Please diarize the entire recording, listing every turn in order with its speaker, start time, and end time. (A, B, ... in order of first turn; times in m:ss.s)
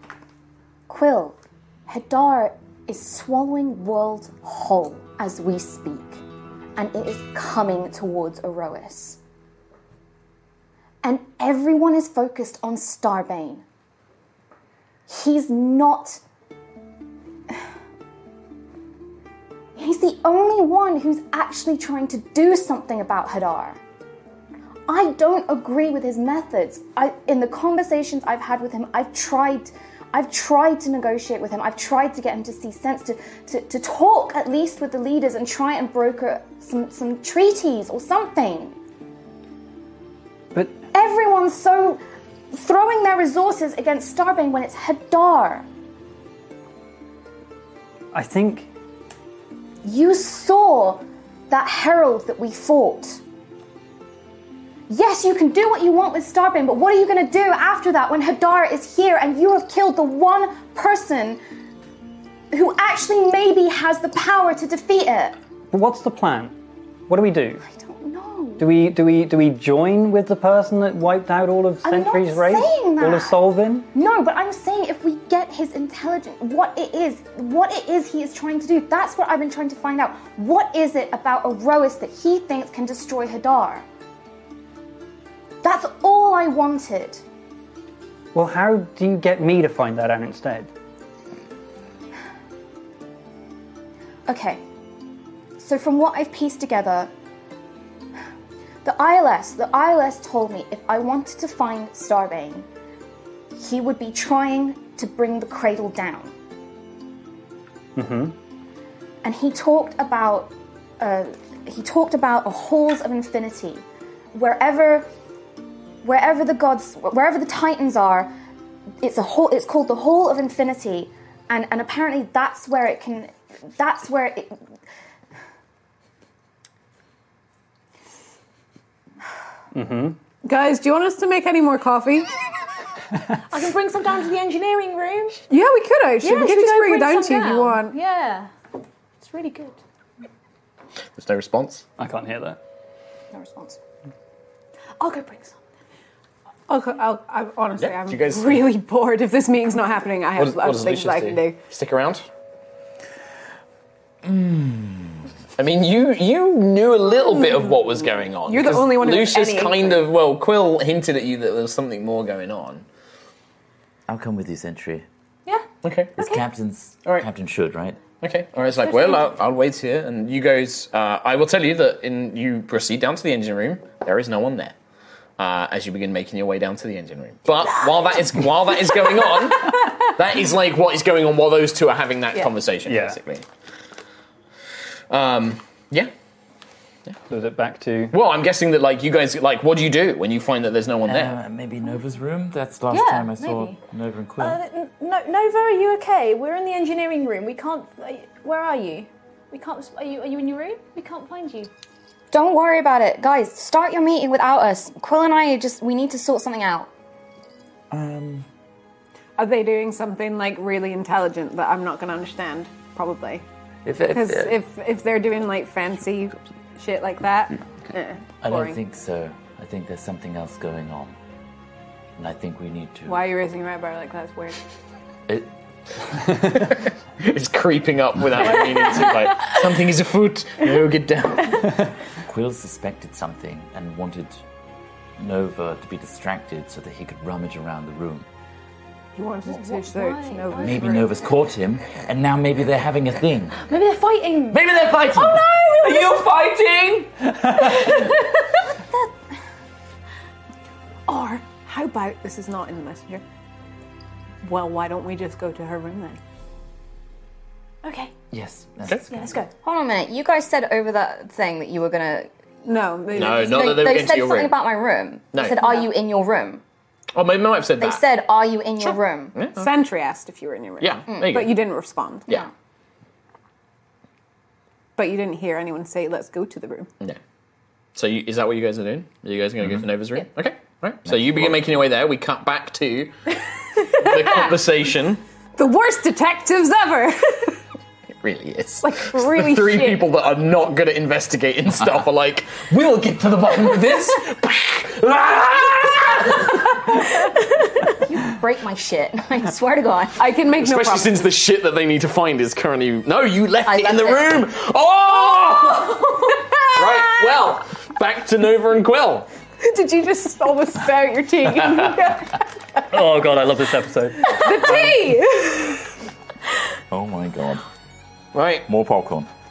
0:00.9-0:06.2 A
0:06.8-0:09.2 A
0:11.0-0:13.6 A
0:15.1-0:16.2 A
0:19.8-0:23.8 A
0:24.9-0:38.8 A
0:40.5-0:40.8 B
0:40.9-0:42.0 A
0:42.5-0:45.6 A
0:48.1-0:48.7 B
0:49.8-0:53.2 A
0:54.9-1:01.4 A
1:02.5-1:05.4 A
1:05.7-1:06.5 B
1:07.1-1:07.6 B
1:07.7-1:08.7 A
1:08.6-1:13.9 B
1:11.8-1:13.4 A
1:13.9-1:23.8 A
1:25.6-1:27.2 A
1:28.3-1:30.7 B
1:34.3-1:34.6 A
1:35.6-1:37.1 A
1:38.8-1:42.7 A
1:43.6-1:46.3 A
1:48.0-1:48.4 B
1:49.2-1:55.1 A
1:56.0-1:58.3 A
1:59.0-2:04.6 A
2:09.7-2:10.2 B
2:10.4-2:12.3 C
2:13.5-2:15.4 D
2:15.5-2:18.0 C
2:16.2-2:18.5 D
2:19.2-2:19.8 D
2:21.2-2:21.8 E
2:22.0-2:22.6 B
2:23.3-2:23.7 A
2:25.0-2:25.5 D
2:26.7-2:31.6 C
2:27.8-2:28.7 E
2:30.4-2:32.2 E
2:34.2-2:35.2 F
2:35.6-2:42.8 E
2:38.4-2:40.1 C
2:44.1-2:45.0 F
2:45.8-2:46.1 E
2:46.2-2:48.0 F
2:48.2-2:54.8 E
2:48.8-2:49.3 D
2:55.4-3:03.4 E
3:02.8-3:03.2 B
3:05.1-3:06.1 E
3:07.3-3:08.2 B
3:08.1-3:11.3 E
3:11.0-3:14.6 F
3:12.9-3:13.8 D
3:14.4-3:21.7 D
3:22.3-3:26.9 A
3:27.9-3:28.5 F
3:29.4-3:33.4 C
3:33.8-3:34.6 F
3:34.1-3:38.8 C
3:38.4-3:41.1 F
3:42.2-3:43.3 F
3:43.0-3:44.6 C
3:46.4-3:51.8 E
3:52.2-3:54.4 F
3:55.2-3:58.3 F
3:59.1-4:01.2 C
3:59.5-4:00.9 D
4:00.6-4:03.6 F
4:03.6-4:06.3 D
4:04.5-4:07.9 F
4:07.6-4:08.4 D
4:11.1-4:13.2 C
4:14.4-4:16.2 C
4:17.8-4:18.1 D
4:18.3-4:19.4 F
4:19.1-4:19.5 D
4:19.6-4:22.3 A
4:22.6-4:23.8 C
4:23.1-4:24.6 E
4:23.3-4:26.6 A
4:25.3-4:25.8 E
4:27.1-4:28.0 E
4:27.8-4:29.4 A
4:28.8-4:29.6 E
4:29.6-4:32.3 C
4:30.8-4:31.5 E
4:35.0-4:36.9 C
4:37.9-4:43.1 E
4:41.0-4:41.7 F
4:43.8-4:44.5 C
4:43.8-4:45.2 E
4:45.6-4:47.6 C
4:48.2-4:57.1 E
4:48.8-4:50.1 C
4:58.0-5:00.2 A
5:00.2-5:01.2 C
5:00.6-5:09.3 E
5:03.6-5:04.3 A
5:09.6-5:12.4 C
5:12.9-5:14.4 B
5:14.2-5:15.9 C
5:16.9-5:17.6 F
5:18.3-5:18.6 E
5:18.6-5:19.3 F